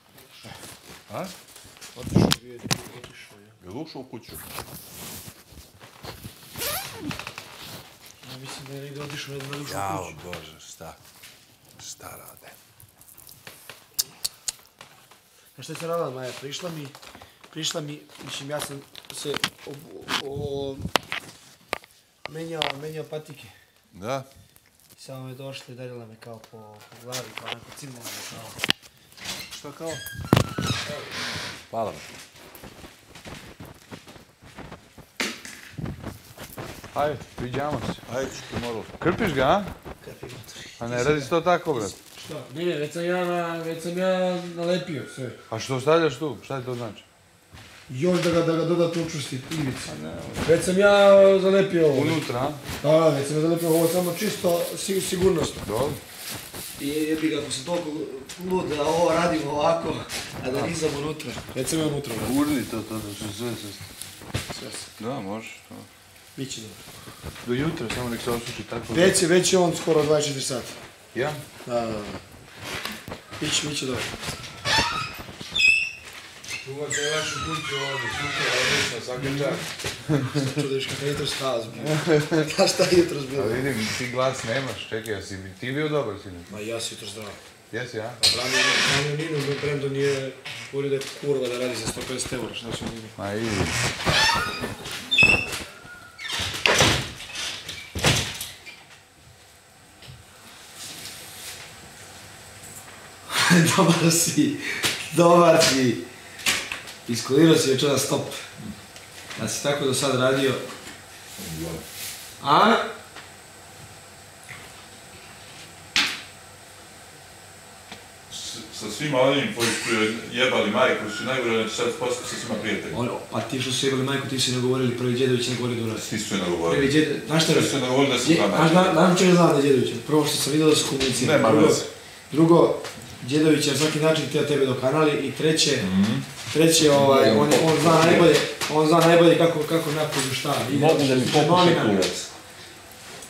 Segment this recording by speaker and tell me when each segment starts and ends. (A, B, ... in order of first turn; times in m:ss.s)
0:00.2-0:00.5 A
0:01.1-0:01.3 B
0:01.9-0:03.6 A
0:03.6-0:04.5 B
0:08.2-0:10.2 A
0:09.6-0:11.0 B
0:11.8-0:12.5 B
0:15.5-0:17.0 A
0:17.5-0:20.9 A
0:22.2-0:23.6 A
0:23.9-0:24.3 B
0:25.0-0:28.6 A
0:29.6-0:30.0 B
0:31.7-0:32.0 B
0:36.9-0:38.0 C
0:38.1-0:38.9 B
0:39.0-0:39.7 C
0:40.0-0:45.4 A
0:40.8-0:42.0 C
0:45.5-0:47.0 C
0:47.9-0:49.9 A
0:49.9-0:50.5 C
0:50.4-0:52.2 A
0:51.9-0:52.6 C
0:52.8-0:55.6 A
0:55.6-0:56.0 C
0:56.8-1:02.4 A
1:02.2-1:03.8 C
1:04.5-1:04.9 A
1:05.0-1:05.9 C
1:06.3-1:06.8 A
1:07.4-1:09.2 C
1:08.9-1:10.8 A
1:11.1-1:11.4 C
1:11.6-1:12.2 A
1:13.4-1:14.1 A
1:16.6-1:20.5 C
1:19.2-1:19.6 A
1:20.1-1:23.7 A
1:21.7-1:22.5 C
1:23.3-1:26.5 C
1:26.5-1:27.4 A
1:27.7-1:28.2 C
1:28.2-1:33.1 A
1:33.2-1:33.8 C
1:43.3-1:46.0 A
1:47.0-1:48.4 A
1:49.4-1:50.6 A
1:51.4-1:51.8 B
1:52.4-1:52.9 A
1:58.3-2:03.0 B
2:02.9-2:06.1 A
2:05.9-2:09.0 B
2:06.6-2:15.9 A
2:11.1-2:11.9 B
2:15.8-2:16.3 B
2:16.5-2:22.0 A
2:16.9-2:18.3 B
2:20.7-2:22.3 B